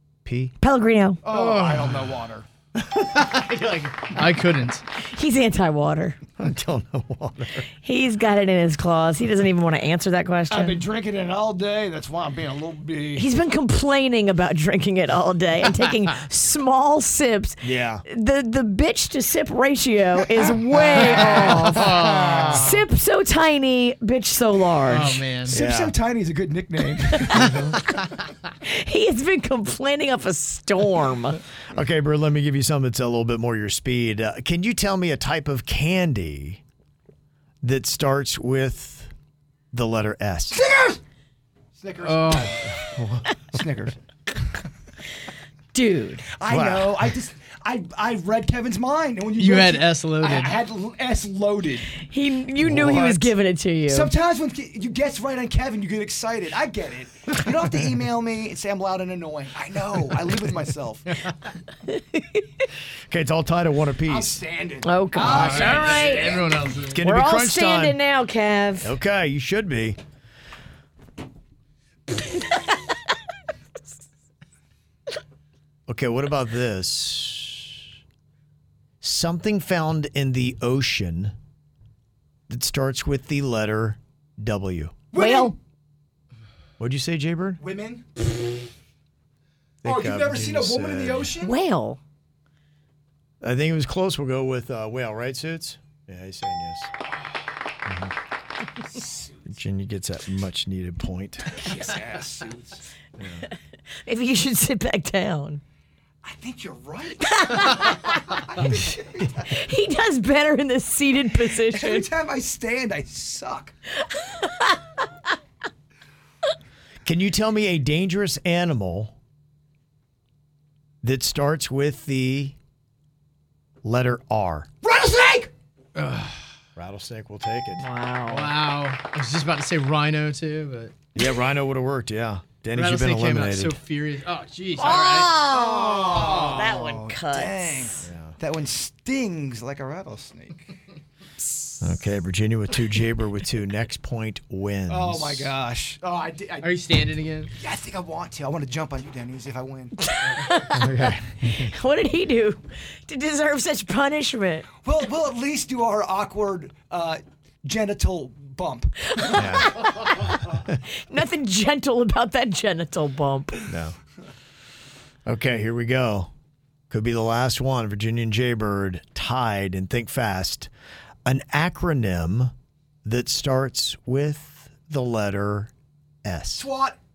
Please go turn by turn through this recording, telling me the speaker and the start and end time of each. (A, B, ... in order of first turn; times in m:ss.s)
0:00.2-0:00.6 A
0:00.6-0:01.2 B
0:01.2-0:02.5 C
0:01.3-0:02.0 D
0:03.1-0:04.8 D
0:05.0-0:06.2 B
0:06.4-0:07.7 A
0:07.8-0:10.8 B
0:10.5-0:13.3 C
0:13.1-0:25.2 B
0:17.6-0:18.0 A
0:20.7-0:21.7 C
0:21.5-0:22.7 A
0:21.8-0:22.6 D
0:24.9-0:25.6 D
0:25.4-0:27.5 C
0:25.5-0:26.0 A
0:27.3-0:27.8 A
0:28.6-0:31.4 B
0:31.7-0:36.6 A
0:37.6-0:39.1 A
0:39.7-0:40.6 A
0:40.5-0:41.0 C
0:41.8-0:42.6 C
0:42.0-0:42.6 D
0:42.8-0:43.3 A
0:43.5-0:44.0 C
0:45.7-0:46.3 B
0:46.4-0:51.9 C
0:46.5-0:47.1 A
0:49.4-0:50.6 D
0:52.0-0:54.1 B
0:52.6-0:53.2 A
0:52.7-0:53.2 C
0:53.9-1:01.2 C
1:01.9-1:02.4 B
1:03.1-1:04.4 A
1:04.1-1:06.7 C
1:04.8-1:06.4 B
1:05.2-1:07.0 D
1:06.9-1:08.0 A
1:07.0-1:09.0 B
1:08.8-1:10.0 A
1:15.9-1:17.8 A
1:19.0-1:21.3 A
1:22.5-1:25.0 A
1:25.1-1:25.6 C
1:25.2-1:25.6 B
1:26.8-1:27.6 A
1:27.6-1:28.1 C
1:29.8-1:31.3 A
1:29.8-1:31.6 C
1:31.4-1:32.0 B
1:33.4-1:36.9 A
1:37.9-1:38.1 A
1:38.9-1:39.2 C
1:39.4-1:41.6 A
1:41.5-1:42.9 C
1:43.2-1:43.5 A
1:44.0-1:45.6 B
1:46.2-1:47.4 C
1:47.3-1:48.4 B
1:48.3-1:49.6 C
1:49.5-1:52.1 B
1:51.5-1:53.7 C
1:57.0-1:59.2 A
2:01.0-2:02.6 A
2:03.8-2:04.7 A
2:04.8-2:05.5 C
2:06.0-2:06.4 D
2:06.8-2:07.9 A
2:07.8-2:08.5 B
2:08.3-2:11.0 D
2:11.2-2:13.8 A
2:12.8-2:16.8 D
2:14.8-2:17.9 B
2:15.4-2:20.8 C
2:18.0-2:18.4 A
2:21.8-2:25.5 A
2:24.9-2:26.8 C
2:26.6-2:27.5 D
2:27.6-2:30.0 C
2:30.2-2:30.8 B
2:30.7-2:31.7 A
2:31.6-2:34.7 B
2:34.8-2:39.1 C
2:39.2-2:39.8 B
2:39.3-2:39.7 A
2:41.1-2:43.7 B
2:43.7-2:44.0 A
2:45.3-2:46.3 A
2:46.9-2:50.7 A
2:51.2-2:52.5 A
2:53.0-2:55.7 A
2:56.2-2:56.7 A
2:56.6-2:57.0 C